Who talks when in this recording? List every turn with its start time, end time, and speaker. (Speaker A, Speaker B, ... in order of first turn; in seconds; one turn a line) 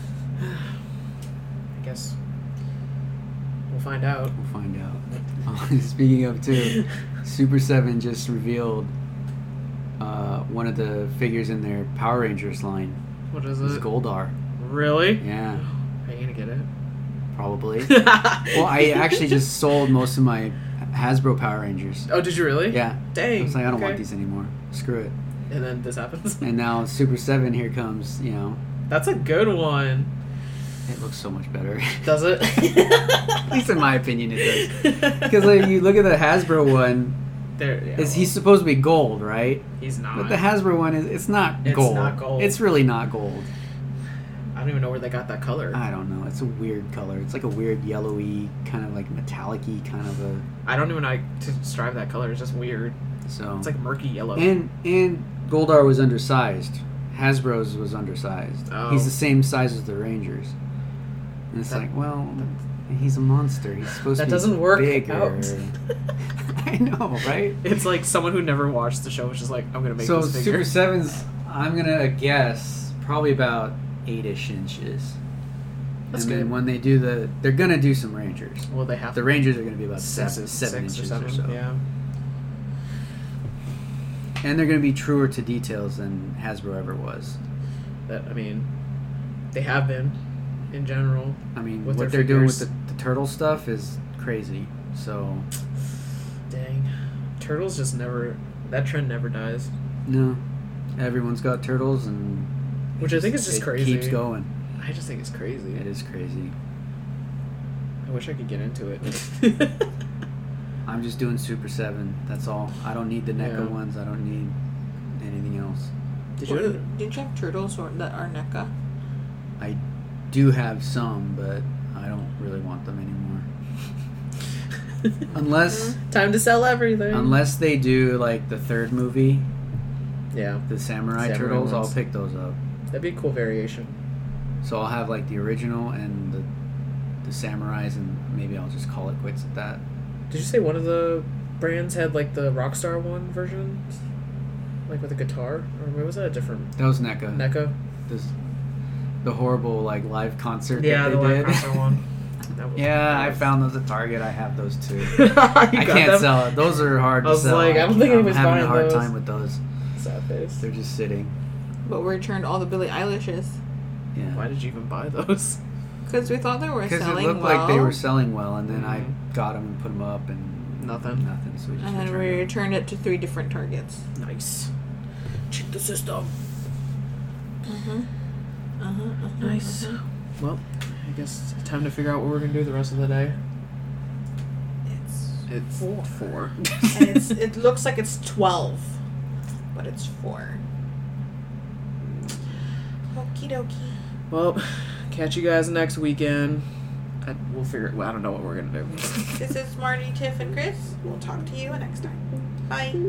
Speaker A: 0.4-0.6
Speaker A: 1.7-2.1
Speaker A: 3.7-4.3
Speaker B: 4.3-8.9
Speaker B: 10.0-13.0
Speaker A: 13.3-13.9
Speaker B: 13.6-14.3
Speaker A: 14.6-16.7
Speaker B: 15.2-15.6
Speaker B: 17.3-22.1
Speaker A: 17.8-19.3
Speaker A: 22.1-24.0
Speaker B: 22.7-25.1
Speaker A: 25.5-26.6
Speaker B: 26.4-28.6
Speaker A: 28.9-30.1
Speaker B: 30.9-32.1
Speaker A: 32.0-33.5
Speaker B: 33.5-37.2
Speaker A: 34.5-35.7
Speaker A: 37.6-38.3
Speaker B: 38.0-43.5
Speaker A: 39.8-40.4
Speaker A: 41.6-42.6
Speaker A: 44.5-45.8
Speaker B: 45.7-50.4
Speaker A: 50.6-53.0
Speaker B: 53.2-53.7
Speaker A: 53.6-54.5
Speaker B: 54.3-60.5
Speaker A: 58.7-59.1
Speaker B: 61.5-65.7
Speaker A: 64.1-65.5
Speaker B: 66.5-67.6
Speaker A: 67.6-70.8
Speaker B: 70.0-75.2
Speaker A: 76.1-76.5
Speaker B: 76.1-81.6
Speaker A: 78.7-81.8
Speaker B: 84.4-87.4
Speaker A: 88.1-88.7
Speaker A: 89.5-90.2
Speaker A: 90.7-92.7
Speaker B: 91.5-95.5
Speaker A: 96.5-99.7
Speaker B: 100.0-100.4
Speaker B: 101.0-104.5
Speaker A: 103.0-104.2
Speaker A: 104.8-105.8
Speaker B: 105.8-106.5
Speaker A: 108.0-109.8
Speaker B: 110.8-114.5
Speaker A: 113.4-113.7
Speaker B: 115.1-115.9
Speaker A: 116.4-116.8
Speaker C: 116.4-118.7
Speaker B: 119.6-123.5
Speaker B: 125.3-126.0
Speaker C: 125.7-126.0
Speaker A: 126.1-127.4
Speaker B: 127.1-129.5
Speaker A: 130.3-131.9
Speaker B: 130.7-132.6
Speaker A: 132.9-134.0
Speaker B: 134.6-136.5
Speaker B: 137.2-139.8
Speaker A: 140.3-143.8
Speaker A: 144.9-147.7
Speaker B: 146.8-147.4
Speaker B: 148.1-148.3
Speaker B: 149.2-151.7
Speaker A: 150.8-152.0
Speaker A: 152.5-153.5
Speaker B: 152.8-159.6
Speaker A: 155.0-159.1
Speaker A: 160.0-160.6
Speaker B: 160.6-161.3
Speaker C: 161.8-163.6
Speaker B: 164.1-164.4
Speaker A: 164.3-165.6
Speaker C: 166.1-168.0
Speaker B: 166.8-172.5
Speaker A: 168.7-169.2
Speaker A: 170.8-171.2
Speaker C: 171.8-174.0
Speaker A: 174.2-174.7
Speaker A: 175.5-176.3
Speaker C: 177.6-178.1
Speaker C: 178.8-179.9
Speaker A: 179.4-183.4
Speaker A: 185.5-187.2
Speaker C: 186.9-188.9
Speaker C: 189.7-190.6
Speaker C: 193.1-194.0
Speaker A: 194.3-196.6
Speaker A: 197.2-199.4
Speaker C: 199.3-203.0